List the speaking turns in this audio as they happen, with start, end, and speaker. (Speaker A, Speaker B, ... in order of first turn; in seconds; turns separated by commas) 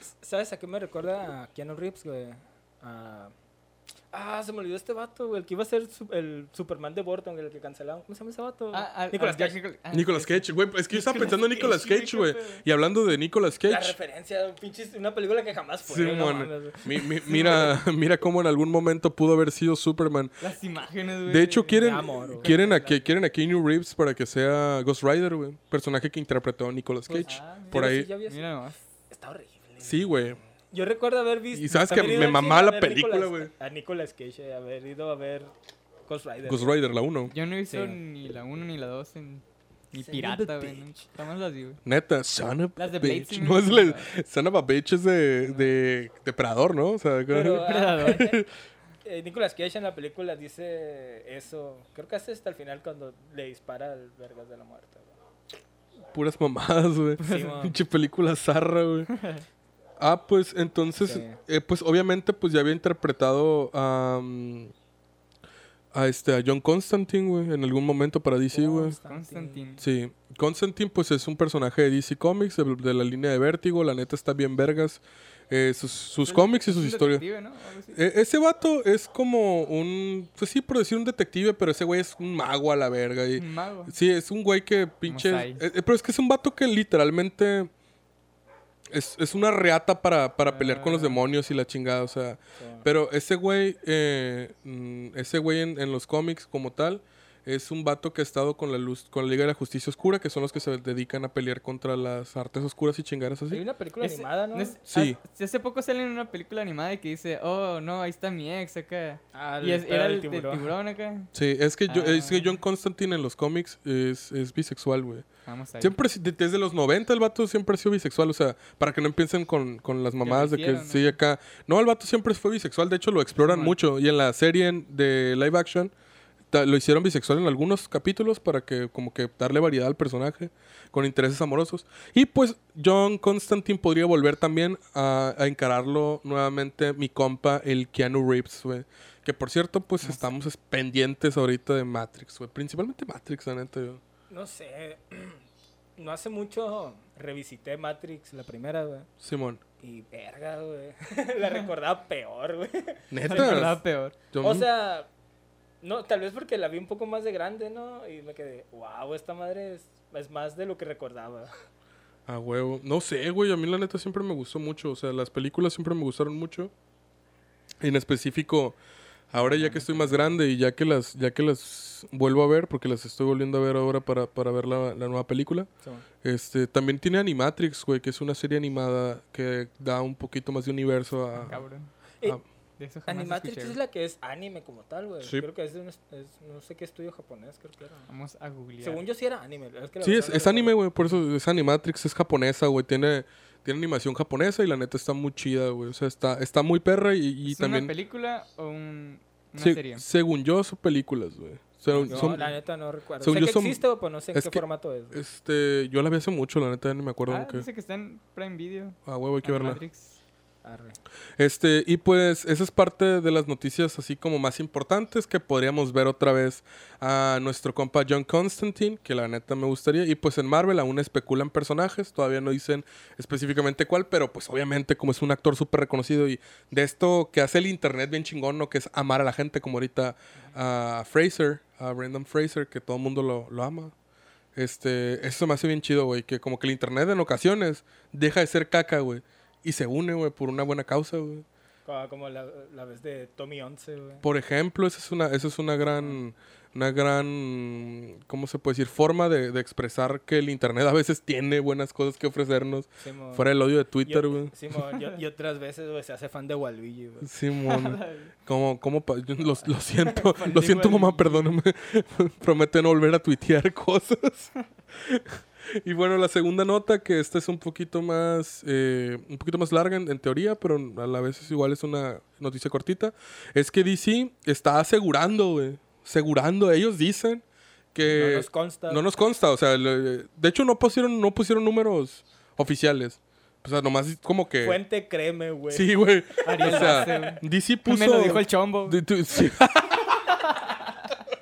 Speaker A: 0.2-3.3, Speaker A: 4.1-9.6, Speaker B: 8.7-12.6, Speaker C: 9.9-13.9, Speaker A: 13.6-17.8, Speaker C: 15.8-20.4, Speaker B: 20.4-23.1, Speaker C: 21.3-28.1, Speaker A: 21.8-22.5, Speaker A: 27.1-28.5, Speaker B: 27.2-28.8, Speaker A: 29.1-35.5, Speaker C: 29.8-30.4, Speaker C: 31.5-33.5, Speaker A: 36.0-36.8, Speaker C: 36.5-37.3, Speaker B: 37.3-41.8, Speaker A: 37.7-38.0, Speaker A: 40.0-41.0, Speaker C: 41.8-48.5, Speaker B: 42.8-44.1, Speaker A: 47.3-48.4, Speaker B: 47.6-48.3, Speaker A: 49.0-55.1, Speaker C: 56.1-59.1, Speaker A: 57.2-57.8, Speaker B: 59.1-59.4, Speaker C: 60.0-64.7, Speaker A: 61.0-61.4, Speaker C: 65.9-68.9, Speaker A: 68.5-69.7, Speaker B: 69.0-69.8, Speaker C: 69.8-77.2, Speaker B: 76.2-78.0, Speaker C: 77.9-87.7, Speaker B: 83.3-83.9, Speaker B: 85.1-85.6, Speaker C: 88.9-103.6, Speaker B: 90.4-91.2, Speaker A: 92.6-92.9, Speaker A: 103.5-104.8, Speaker B: 104.0-111.3, Speaker C: 104.9-105.2, Speaker A: 109.3-110.7, Speaker C: 111.3-115.3, Speaker B: 111.9-112.6, Speaker B: 115.5-116.0, Speaker C: 115.8-125.9, Speaker B: 120.2-121.2, Speaker B: 123.4-123.8, Speaker C: 126.5-144.0, Speaker A: 144.3-145.4, Speaker A: 146.0-149.1, Speaker C: 149.2-149.6, Speaker A: 149.8-153.8, Speaker C: 153.1-153.8, Speaker B: 153.3-154.2, Speaker C: 154.3-154.7, Speaker A: 154.4-155.1, Speaker A: 155.8-161.5, Speaker C: 162.3-166.7, Speaker C: 167.8-168.8, Speaker C: 169.3-175.7, Speaker A: 169.3-170.4, Speaker C: 176.2-181.6, Speaker B: 181.3-181.9, Speaker B: 182.8-183.8, Speaker A: 183.1-188.1, Speaker B: 188.1-189.0, Speaker A: 188.8-190.8, Speaker C: 190.0-197.9, Speaker B: 197.4-200.0, Speaker C: 199.6-202.5, Speaker B: 201.9-202.5, Speaker A: 202.0-205.2, Speaker C: 203.2-203.8, Speaker C: 204.3-207.7, Speaker B: 207.3-210.2, Speaker C: 209.1-209.8, Speaker A: 210.6-211.0, Speaker C: 211.4-233.9, Speaker C: 234.6-241.4, Speaker A: 241.8-244.2, Speaker C: 244.2-254.5, Speaker A: 253.0-253.4, Speaker A: 254.0-257.3, Speaker C: 257.2-284.8, Speaker B: 257.6-258.3, Speaker B: 260.0-261.6, Speaker A: 278.0-279.0, Speaker A: 284.6-287.4, Speaker C: 285.7-290.4, Speaker B: 286.4-289.0, Speaker B: 290.5-290.9